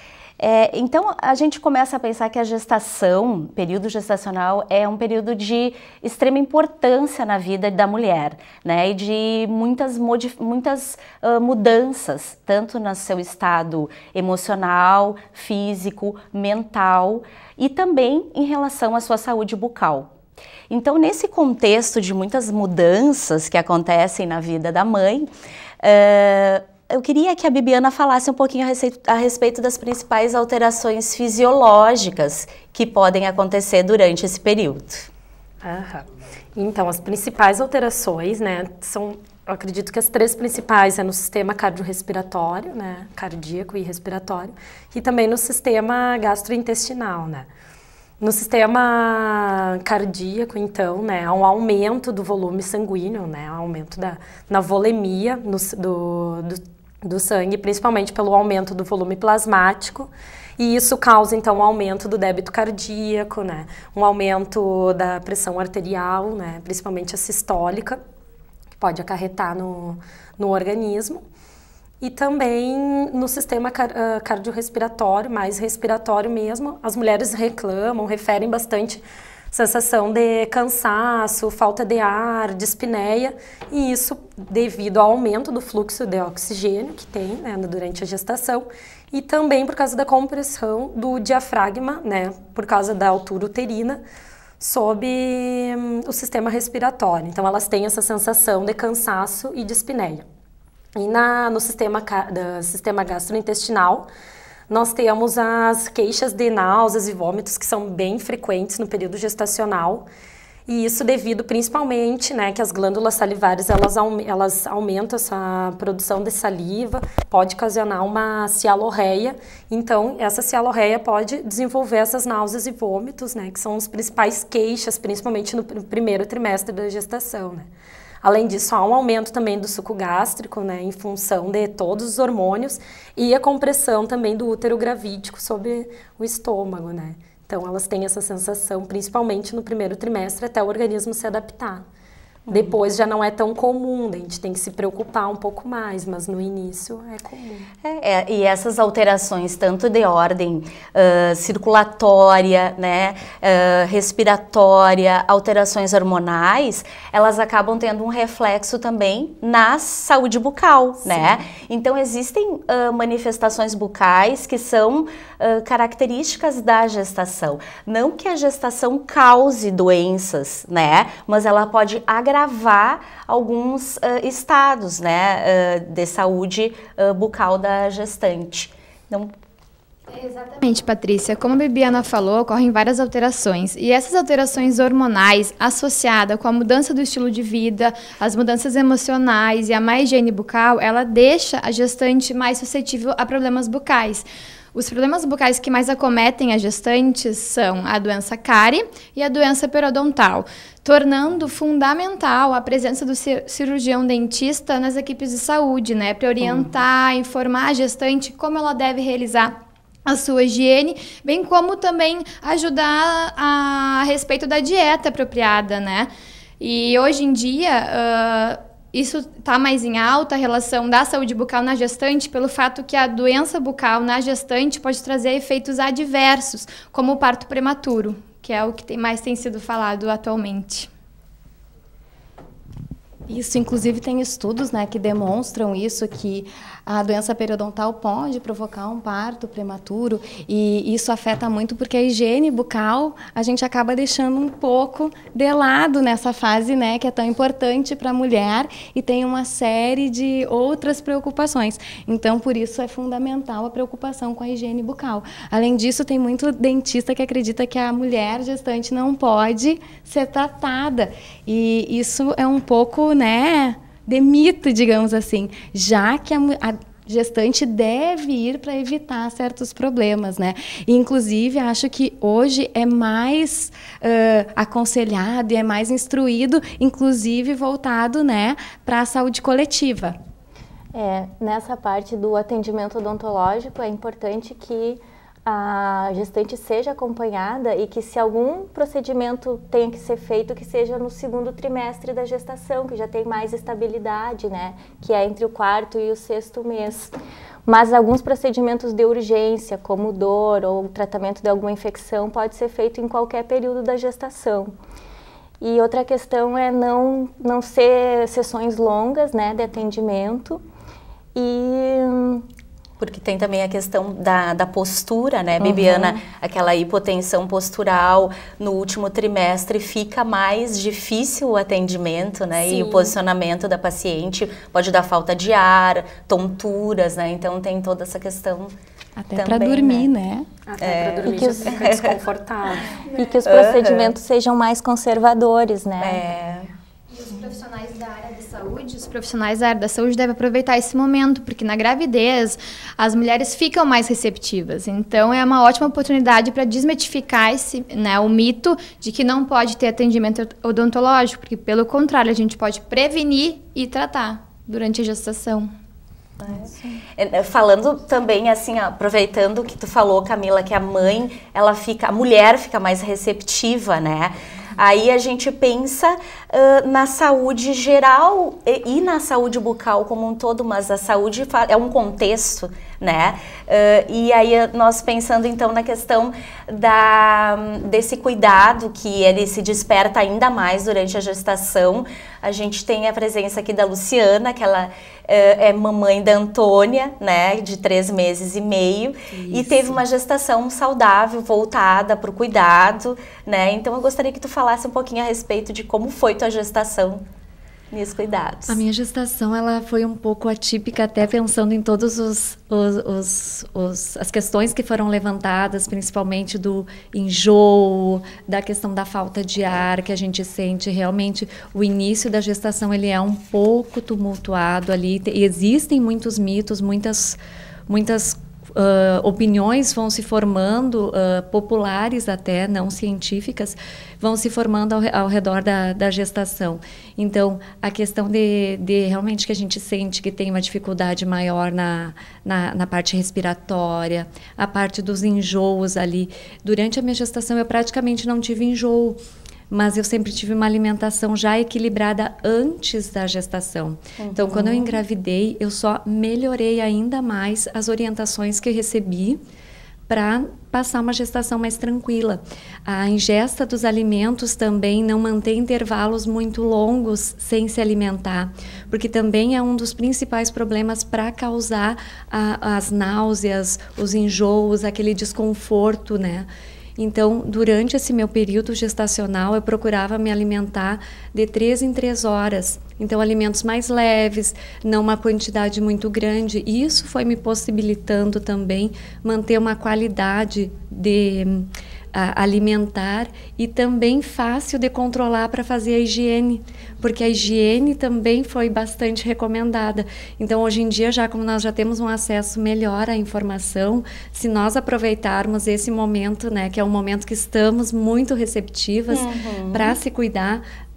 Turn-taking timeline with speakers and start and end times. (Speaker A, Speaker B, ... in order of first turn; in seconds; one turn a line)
Speaker A: 0.4-20.1
Speaker A: 20.7-25.3
Speaker A: 25.8-35.1
Speaker B: 35.6-47.5
Speaker B: 48.2-68.0
Speaker B: 68.8-71.2
Speaker B: 72.0-94.0
Speaker B: 94.6-100.3
Speaker B: 101.0-104.1
Speaker B: 104.7-110.0
Speaker B: 110.7-127.7
Speaker B: 128.2-141.8
Speaker A: 142.5-142.8
Speaker B: 142.5-147.7
Speaker A: 147.8-179.3
Speaker C: 180.1-230.9
Speaker D: 233.3-280.2
Speaker E: 280.9-297.1
Speaker E: 297.7-304.7
Speaker E: 305.6-310.6
Speaker E: 311.4-312.5
Speaker A: 313.0-328.7
Speaker E: 315.6-316.2
Speaker B: 322.6-323.1
Speaker D: 329.2-330.5
Speaker A: 329.4-330.1
Speaker B: 330.7-333.0
Speaker A: 330.8-332.2
Speaker E: 331.2-331.8
Speaker E: 333.1-336.3
Speaker A: 333.4-334.1
Speaker A: 336.0-336.7
Speaker C: 337.1-355.7
Speaker A: 356.4-397.2
Speaker F: 389.3-390.0
Speaker A: 397.9-398.8
Speaker F: 398.7-439.2
Speaker F: 439.7-449.4
Speaker A: 444.2-445.0
Speaker F: 450.1-500.6
Speaker A: 499.1-500.0